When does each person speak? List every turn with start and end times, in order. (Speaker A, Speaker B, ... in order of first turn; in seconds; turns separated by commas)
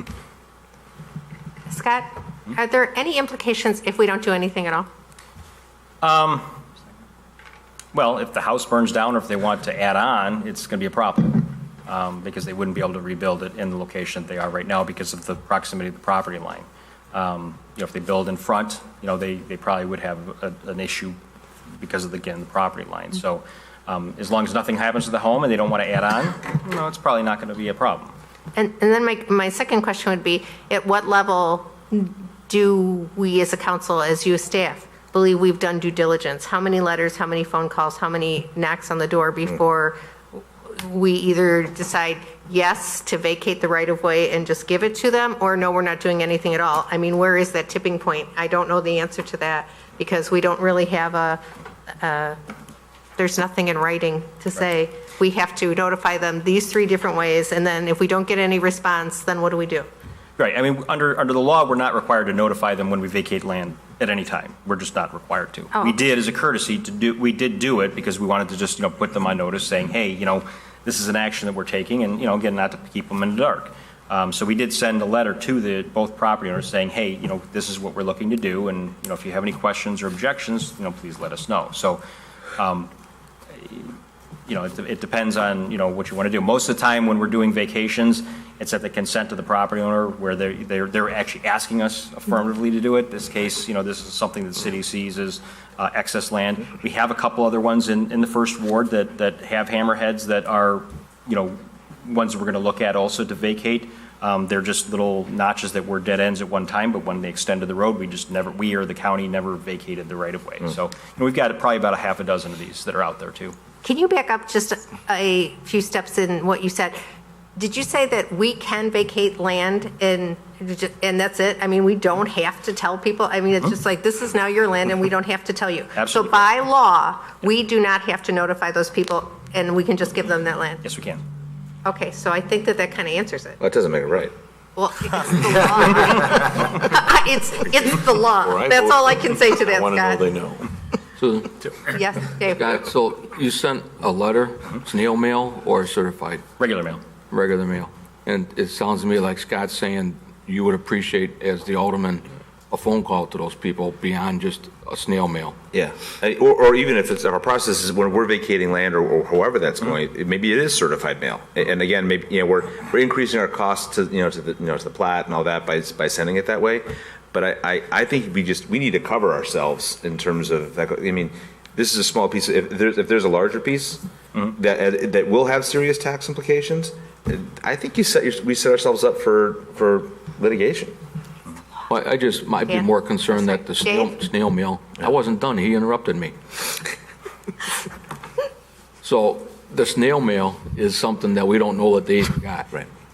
Speaker A: 1.7-4.9, Speaker B: 6.0-6.5, Speaker B: 7.9-21.2, Speaker B: 21.8-28.1, Speaker A: 28.6-51.4, Speaker A: 52.0-52.4, Speaker A: 53.2-59.9, Speaker B: 60.4-82.0, Speaker B: 82.6-82.9, Speaker B: 83.6-83.9, Speaker B: 84.5-113.5, Speaker A: 113.8-117.0, Speaker A: 117.6-130.8, Speaker B: 126.0-126.5, Speaker B: 130.8-131.2, Speaker A: 131.8-133.6, Speaker C: 133.6-134.3, Speaker A: 134.8-140.3, Speaker D: 138.4-140.7, Speaker E: 141.2-141.6, Speaker A: 141.9-142.7, Speaker E: 142.4-146.4, Speaker B: 146.6-147.0, Speaker E: 147.3-155.6, Speaker C: 155.7-181.0, Speaker E: 181.9-186.3, Speaker A: 182.7-184.1, Speaker E: 189.0-192.7